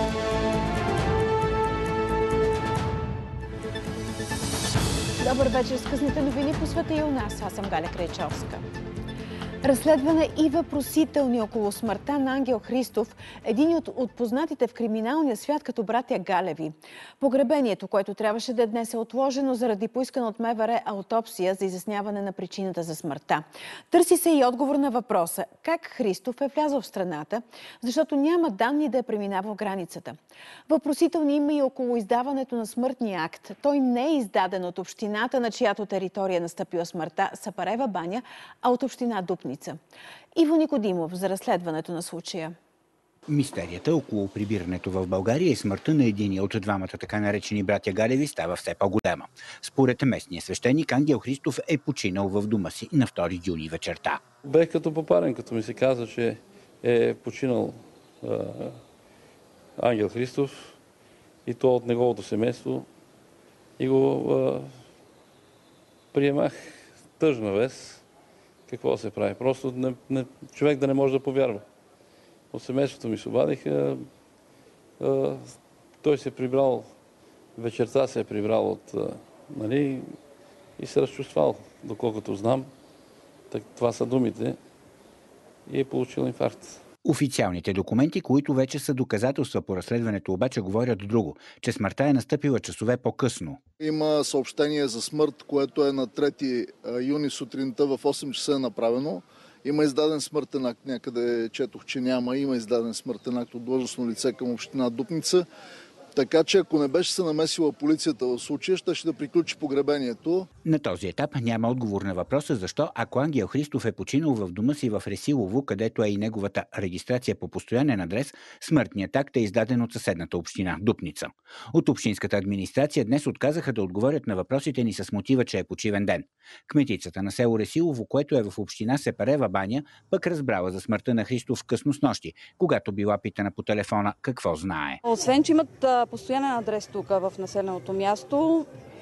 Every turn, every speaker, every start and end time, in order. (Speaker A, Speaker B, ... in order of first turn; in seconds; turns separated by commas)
Speaker A: 5.2-8.6, Speaker A: 9.6-39.8, Speaker A: 40.4-42.5, Speaker B: 43.3-54.2, Speaker C: 54.5-58.8, Speaker C: 59.8-60.7, Speaker C: 61.5-62.9, Speaker C: 63.8-64.7, Speaker C: 66.1-68.0, Speaker C: 68.7-71.6, Speaker C: 72.5-74.1, Speaker C: 75.0-76.9, Speaker C: 77.6-80.2, Speaker C: 80.8-82.7, Speaker C: 83.5-84.6, Speaker C: 85.7-86.8, Speaker B: 87.0-93.6, Speaker D: 93.8-105.5, Speaker D: 106.2-110.5, Speaker B: 110.6-135.0, Speaker E: 135.1-138.7